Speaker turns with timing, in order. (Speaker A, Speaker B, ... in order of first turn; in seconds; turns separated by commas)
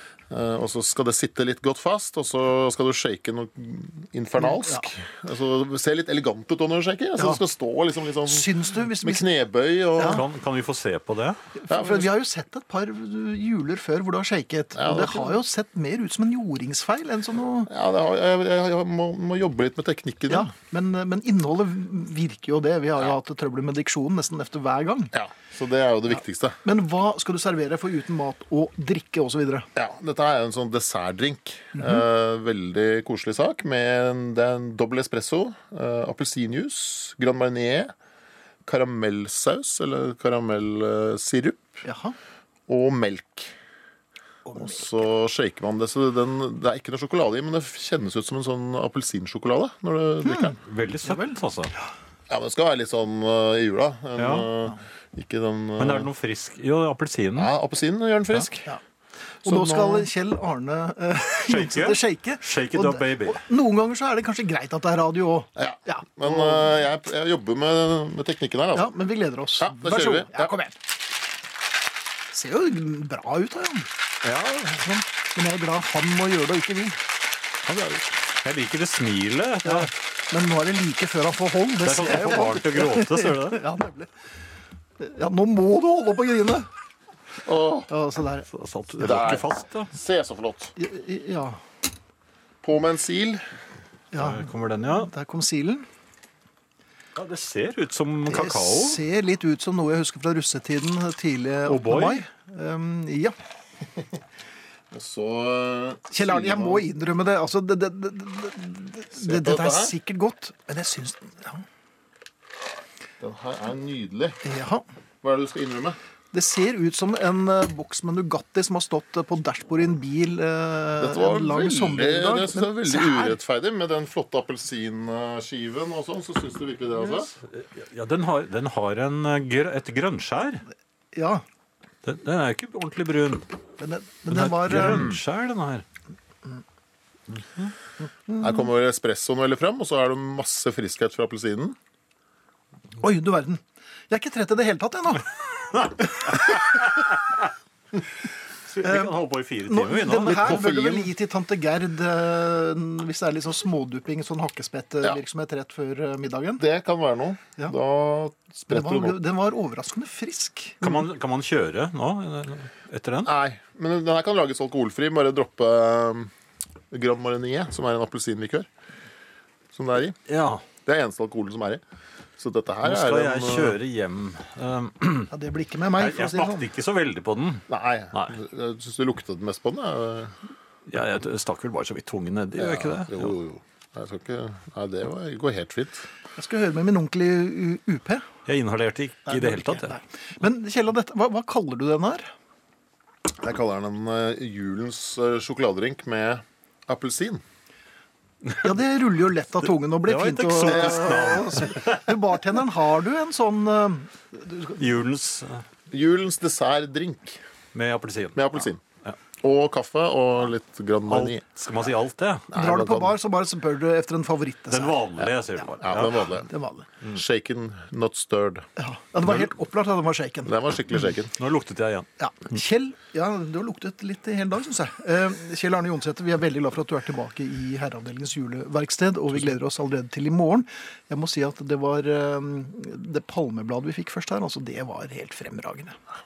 Speaker A: 0.3-10.2, Speaker B: 4.4-4.8, Speaker B: 8.2-9.3, Speaker B: 9.9-10.2, Speaker C: 10.0-11.4, Speaker B: 11.6-17.7, Speaker A: 11.7-12.1, Speaker A: 14.8-15.4, Speaker A: 17.7-20.5, Speaker B: 20.3-25.1, Speaker A: 25.1-26.6, Speaker B: 26.6-29.7, Speaker A: 29.8-37.9, Speaker B: 31.7-32.0, Speaker A: 38.6-41.8, Speaker B: 41.8-42.1, Speaker A: 42.7-43.5, Speaker B: 44.4-44.9, Speaker A: 44.5-50.6, Speaker B: 50.2-51.4, Speaker C: 50.6-51.7, Speaker A: 52.3-56.1, Speaker C: 54.2-54.5, Speaker C: 55.8-57.5, Speaker A: 57.4-58.7, Speaker A: 59.4-60.1, Speaker B: 59.4-66.7, Speaker C: 61.5-63.4, Speaker A: 65.6-68.9, Speaker B: 68.7-70.7, Speaker A: 69.6-70.5, Speaker B: 72.3-73.9, Speaker B: 74.6-77.0, Speaker C: 77.7-79.9, Speaker B: 79.6-84.1, Speaker C: 81.8-83.6, Speaker B: 85.0-86.7, Speaker A: 87.4-87.9, Speaker B: 87.9-88.5, Speaker C: 88.5-89.9, Speaker A: 89.0-90.7, Speaker B: 90.8-91.6, Speaker A: 92.6-93.4, Speaker B: 94.1-95.8, Speaker C: 94.2-95.1, Speaker C: 97.2-99.0, Speaker B: 98.3-103.3, Speaker C: 101.7-102.2, Speaker A: 104.9-106.9, Speaker B: 106.1-111.6, Speaker A: 109.2-109.9, Speaker A: 113.2-114.4, Speaker B: 114.4-114.8, Speaker A: 115.2-116.0, Speaker B: 116.3-123.4, Speaker A: 121.0-127.3, Speaker C: 127.1-130.6, Speaker B: 131.1-131.4, Speaker C: 132.0-133.5, Speaker B: 133.8-135.1, Speaker C: 134.3-135.8, Speaker A: 134.8-135.2, Speaker B: 138.3-138.7, Speaker A: 138.4-141.8, Speaker B: 143.0-145.3, Speaker C: 145.7-147.3, Speaker C: 148.7-150.7, Speaker B: 148.8-156.6, Speaker A: 150.2-151.1, Speaker A: 156.6-159.2, Speaker B: 158.7-161.0, Speaker C: 160.8-163.3, Speaker A: 163.2-166.3, Speaker A: 166.9-168.7, Speaker A: 169.7-170.2, Speaker C: 170.3-170.6, Speaker A: 170.8-171.8, Speaker A: 172.4-173.8, Speaker C: 172.8-175.3, Speaker B: 175.3-176.7, Speaker C: 175.9-178.3, Speaker A: 177.7-180.3, Speaker C: 180.9-183.3, Speaker A: 182.6-186.1, Speaker B: 186.4-188.2, Speaker C: 188.5-189.9, Speaker B: 189.3-192.3, Speaker A: 193.4-197.4, Speaker B: 198.6-204.8, Speaker C: 200.0-202.1, Speaker A: 200.7-201.2, Speaker C: 204.8-205.6, Speaker A: 205.9-207.4, Speaker C: 207.7-209.2, Speaker A: 208.3-208.8, Speaker A: 209.4-211.4, Speaker C: 211.1-212.5, Speaker A: 212.5-213.2, Speaker B: 212.5-215.0, Speaker C: 214.7-216.2, Speaker A: 215.8-216.5, Speaker B: 216.4-216.8, Speaker A: 217.1-218.7, Speaker B: 218.8-220.5, Speaker A: 220.4-221.3, Speaker C: 221.4-222.1, Speaker B: 222.2-236.0